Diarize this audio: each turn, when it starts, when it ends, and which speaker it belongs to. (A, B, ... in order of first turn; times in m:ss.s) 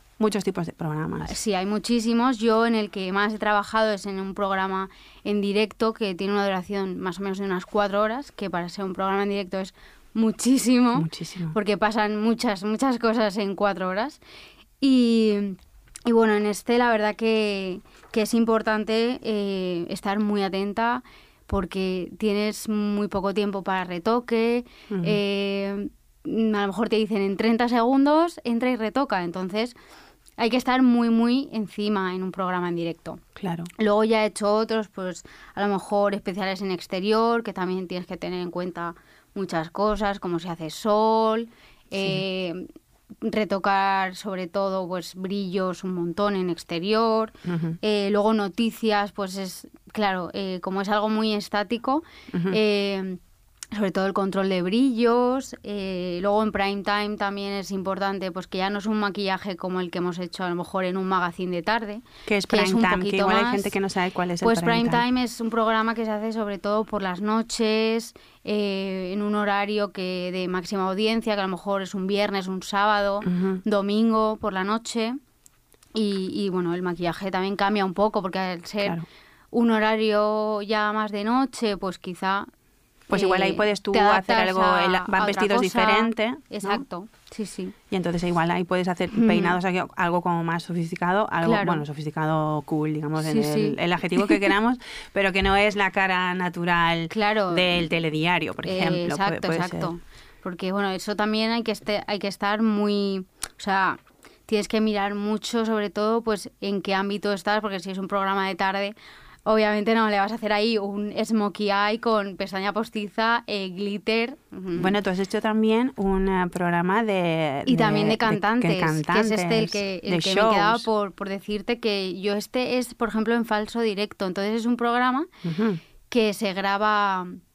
0:00.2-0:01.3 A
0:01.2-0:14.2 B
0:11.0-0:11.6 A
0:14.8-0:29.8 B
0:24.9-0:25.2 A
0:30.4-0:33.2 B
0:33.4-0:33.7 A
0:33.8-0:42.7 B
0:43.2-0:53.2 B
0:47.5-0:47.8 A
0:52.3-0:52.6 A
0:53.7-1:03.7 B
1:02.3-1:05.0 A
1:04.4-1:15.2 B
1:13.2-1:13.6 A
1:16.0-1:19.0 B
1:19.5-1:22.5 B
1:23.1-1:26.8 A
1:23.1-1:27.8 B
1:27.9-1:39.9 A
1:29.1-1:29.6 B
1:31.4-1:31.8 B
1:33.2-1:34.4 B
1:37.1-1:37.9 B
1:38.6-1:49.0 B
1:49.5-1:54.9 B
1:54.8-2:00.9 A
1:57.7-2:05.3 B
2:05.4-2:05.8 A
2:06.1-2:07.4 B